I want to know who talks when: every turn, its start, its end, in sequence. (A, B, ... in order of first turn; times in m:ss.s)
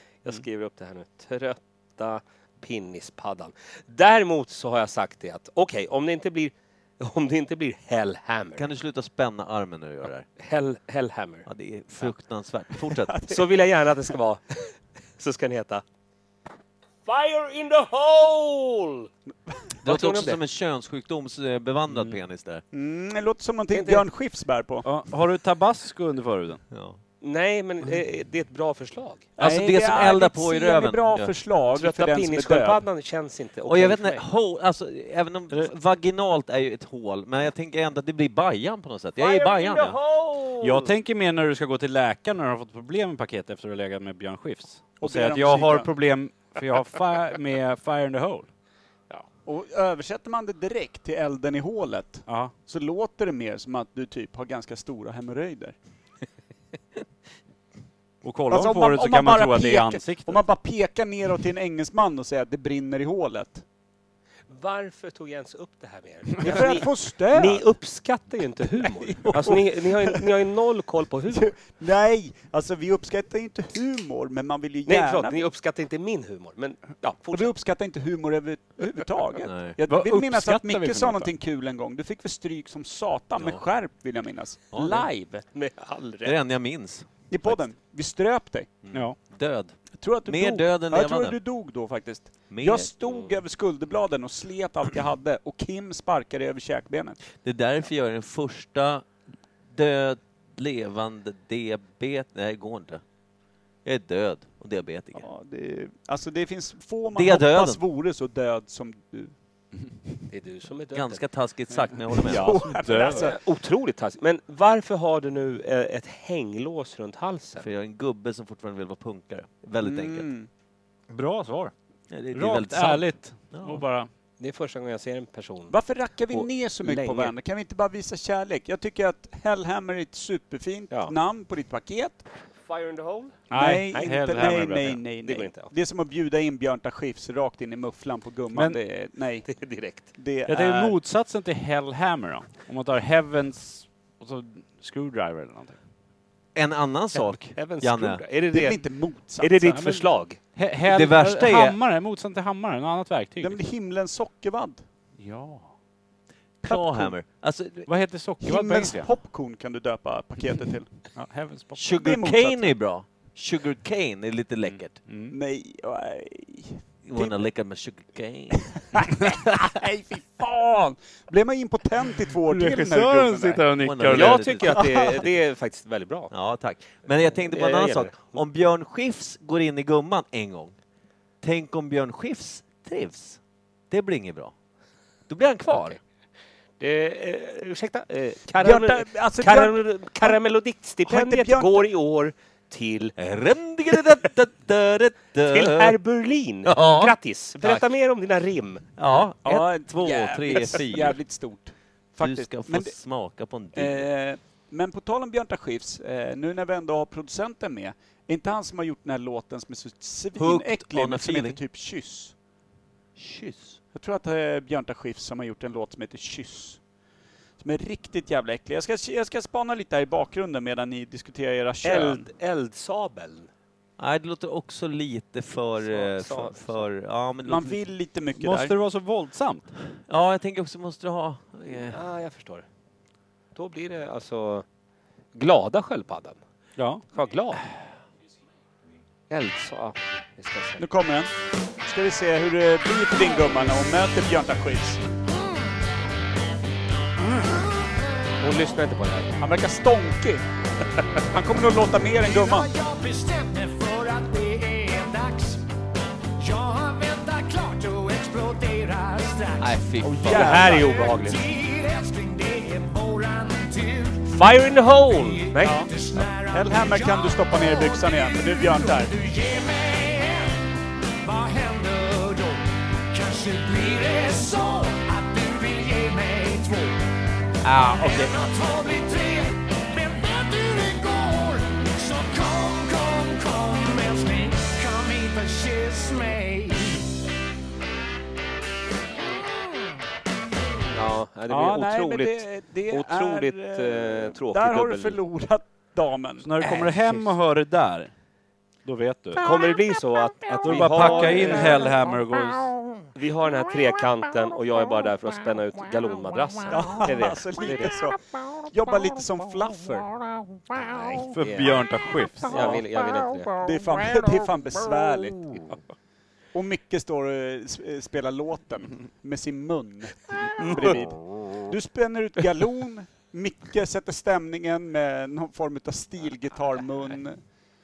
0:00.2-0:08.6 A
0:08.6-0:10.3 B
0:10.4-0:11.4 A
0:11.4-0:13.2 B
0:12.9-0:13.4 C
0:13.3-0:14.6 A
0:15.2-0:15.8 A
0:17.0-0:19.1 A
0:19.8-0:20.4 A
0:19.8-0:22.6 B
0:21.9-0:22.2 D
0:22.7-0:24.9 C
0:23.7-0:24.0 A
0:24.8-0:26.6 D
0:26.7-0:27.0 B
0:27.2-0:29.3 A
0:29.4-0:32.8 C
0:29.4-0:31.3 B
0:31.8-0:34.2 A
0:33.7-0:40.0 B
0:39.2-0:40.9 A
0:40.6-0:48.5 D
0:45.0-0:45.9 C
0:49.4-0:55.8 C
0:52.3-0:52.5 D
0:58.2-1:00.4 D
0:58.5-1:03.6 C
1:04.5-1:11.4 A
1:06.4-1:07.6 C
1:08.8-1:10.2 C
1:11.3-1:15.4 C
1:14.9-1:17.5 A
1:17.3-1:25.4 C
1:19.4-1:19.8 B
1:19.8-1:21.3 D
1:24.7-1:25.0 B
1:25.5-1:26.4 A
1:26.2-1:27.6 B
1:27.3-1:28.7 C
1:28.8-1:31.4 B
1:30.0-1:37.2 C
1:32.5-1:32.9 B
1:33.0-1:33.4 A
1:37.4-1:39.0 B
1:39.7-1:43.0 B
1:43.8-1:45.3 B
1:45.2-1:49.3 C
1:47.1-1:47.8 B
1:50.3-1:51.2 A
1:50.9-1:52.6 B
1:52.2-1:53.4 C
1:52.2-1:53.3 D
1:53.0-1:57.6 A
1:57.6-2:00.3 B
1:59.8-2:00.5 C
2:01.1-2:01.7 D
2:02.1-2:03.8 B
2:02.3-2:04.1 D
2:04.4-2:05.8 A
2:05.7-2:12.2 C
2:06.3-2:07.3 A
2:10.9-2:11.1 A
2:12.6-2:15.7 A
2:13.5-2:15.0 D
2:13.5-2:19.5 C
2:18.5-2:18.8 D
2:19.4-2:20.1 A
2:20.1-2:21.0 C
2:20.4-2:25.8 D
2:26.6-2:28.2 B
2:27.1-2:30.4 A
2:28.5-2:29.8 C
2:29.7-2:33.6 D
2:30.9-2:31.8 B
2:33.4-2:34.8 C
2:35.2-2:35.7 D
2:36.6-2:37.9 B
2:36.7-2:37.1 C
2:37.9-2:39.1 D
2:38.4-2:40.9 C
2:41.1-2:41.9 D
2:41.8-2:45.0 B
2:42.0-2:42.7 C
2:44.6-2:45.4 D
2:45.3-2:47.4 C
2:47.0-2:48.7 B
2:48.9-2:53.6 C
2:52.4-2:54.6 D
2:53.8-2:55.3 B
2:54.1-2:56.3 A
2:56.3-3:00.7 B
2:57.5-2:58.4 A
3:01.4-3:04.5 B
3:05.3-3:06.0 B
3:06.8-3:13.1 A
3:08.6-3:10.4 C
3:11.0-3:11.9 C
3:13.2-3:16.0 B
3:15.5-3:18.8 A
3:16.6-3:17.8 B
3:19.0-3:21.2 B
3:19.4-3:23.0 C
3:22.2-3:24.1 B
3:23.7-3:32.3 C
3:30.4-3:31.6 B
3:33.2-3:33.8 B
3:33.9-3:36.8 C
3:37.6-3:42.3 C
3:41.8-3:43.5 A
3:44.0-3:47.8 B
3:45.9-3:46.9 A
3:47.4-3:48.7 C
3:48.3-3:49.7 D
3:50.1-3:52.0 B
3:51.7-3:52.6 A
3:53.6-3:54.6 A
3:55.3-3:56.4 A
3:56.8-3:57.0 D
3:57.1-3:57.6 A
3:59.3-4:00.9 A
4:00.8-4:01.3 C
4:01.8-4:05.0 C
4:08.4-4:09.3 A
4:09.4-4:10.4 C
4:11.3-4:12.7 C
4:12.2-4:15.6 E
4:16.4-4:24.5 E
4:19.6-4:20.7 B
4:20.1-4:21.0 C
4:20.2-4:21.4 A
4:24.3-4:25.8 A
4:25.1-4:30.6 E
4:25.6-4:25.9 C
4:26.5-4:29.1 C
4:31.2-4:37.1 E
4:37.6-4:38.3 B
4:37.7-4:47.1 E
4:50.9-4:55.2 A
4:51.5-4:56.6 C
4:56.4-4:58.1 D
4:58.8-4:59.6 D
4:59.4-5:01.9 A
5:00.6-5:02.8 D
5:03.2-5:08.0 A
5:06.7-5:10.2 C
5:10.7-5:11.8 A
5:11.3-5:12.8 D
5:12.4-5:13.6 A
5:13.6-5:15.6 C
5:16.5-5:27.4 C
5:20.6-5:21.0 A